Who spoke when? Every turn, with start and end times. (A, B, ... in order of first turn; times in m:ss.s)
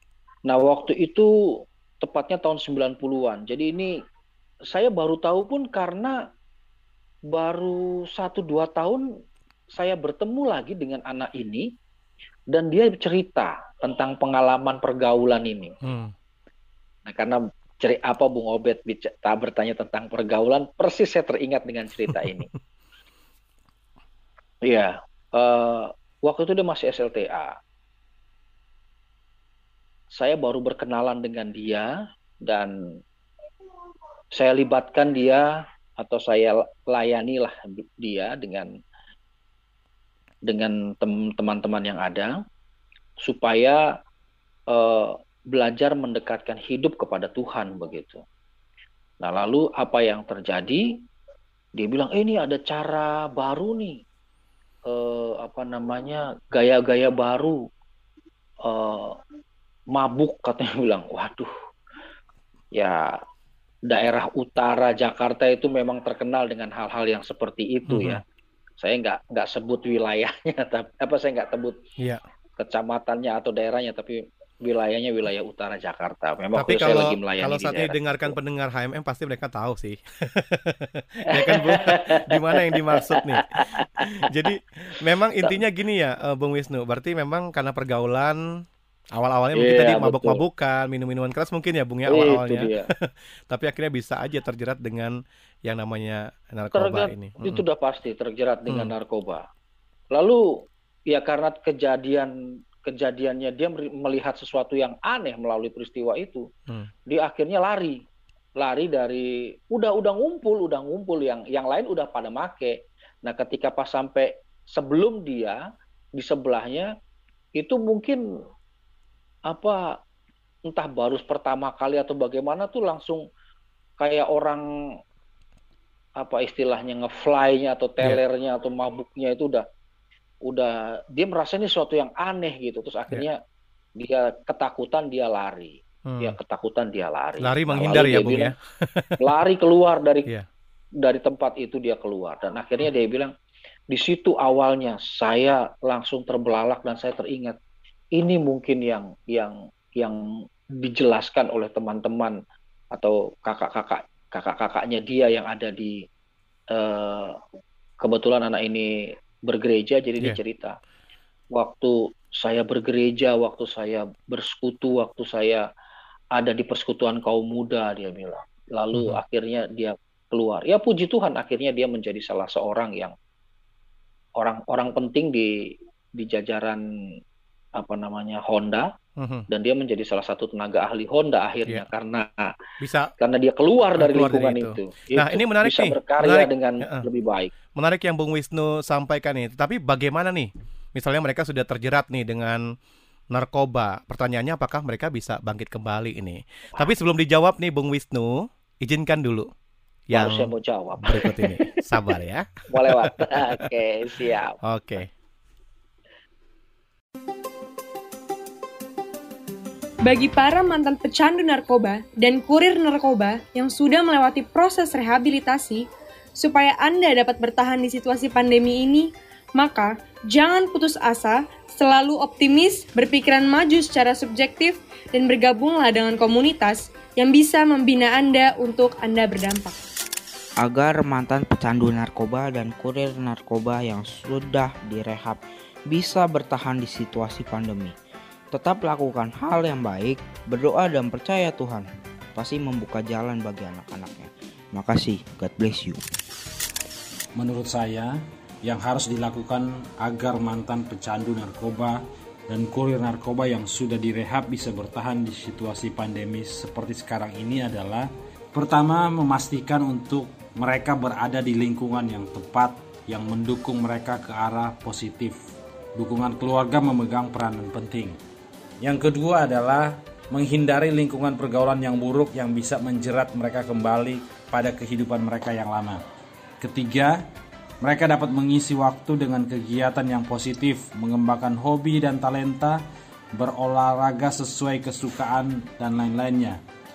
0:00.5-0:01.3 A
0:02.0-0:03.9 A
0:04.7-0:06.2 A
0:07.3-0:09.1 A
0:09.7-0:11.7 A
0:12.5-0:15.7 A
0:15.8-0:16.1 B
0:17.0-0:22.5 A
0:24.6-0:27.5 A
0:30.1-0:31.9 A
0:32.4-0:32.7 A
0:34.3-0:38.7 A
0:40.5-0:42.4 A
0:43.2-0:43.8 A
0:44.7-0:48.2 A
0:49.2-0:50.9 A
0:51.8-0:54.0 A
0:54.9-0:57.6 A
0:58.6-0:59.2 A
0:59.9-1:01.5 A
1:02.7-1:03.2 A
1:03.9-1:08.2 A
1:07.9-1:08.2 B
1:08.8-1:11.8 A
1:12.6-1:18.0 A
1:16.6-1:23.5 B
1:21.3-1:24.1 A
1:24.0-1:28.4 B
1:29.1-1:37.6 B
1:29.5-1:30.4 A
1:32.1-1:32.9 A
1:36.7-1:39.4 A
1:38.7-1:38.9 B
1:40.1-1:42.3 A
1:42.8-1:46.5 A
1:47.1-1:48.0 A
1:48.6-1:55.6 A
1:56.2-1:56.9 A
1:57.6-1:58.2 A
1:59.5-1:59.9 A
2:00.7-2:03.2 A
2:04.0-2:04.6 A
2:06.2-2:09.6 A
2:10.5-2:13.4 A
2:14.0-2:18.5 A
2:16.0-2:16.4 B
2:17.4-2:19.2 B
2:19.2-2:20.3 A
2:21.0-2:23.3 A
2:23.9-2:27.6 A
2:28.1-2:30.2 A
2:30.8-2:32.4 A
2:32.9-2:36.0 A
2:36.7-2:37.4 A
2:38.0-2:38.9 A
2:39.5-2:40.7 A
2:41.5-2:45.6 A
2:46.3-2:53.1 A
2:48.9-2:49.2 B
2:54.4-2:56.8 A
2:57.8-2:58.9 A
2:59.2-2:59.5 B
2:59.5-3:02.5 A
3:02.8-3:03.1 B
3:03.2-3:07.5 A
3:04.0-3:07.1 B
3:07.8-3:12.6 B
3:13.3-3:19.5 B
3:20.1-3:23.6 B
3:20.1-3:21.8 A
3:22.7-3:24.6 A
3:24.6-3:25.1 B
3:30.0-3:35.9 C
3:36.4-3:49.8 C
3:50.6-3:57.9 D
3:58.5-4:06.0 D
4:07.4-4:25.4 E
4:26.0-4:28.2 E
4:28.8-4:36.0 E
4:36.6-4:37.2 E
4:37.8-4:42.8 E
4:43.3-4:46.6 E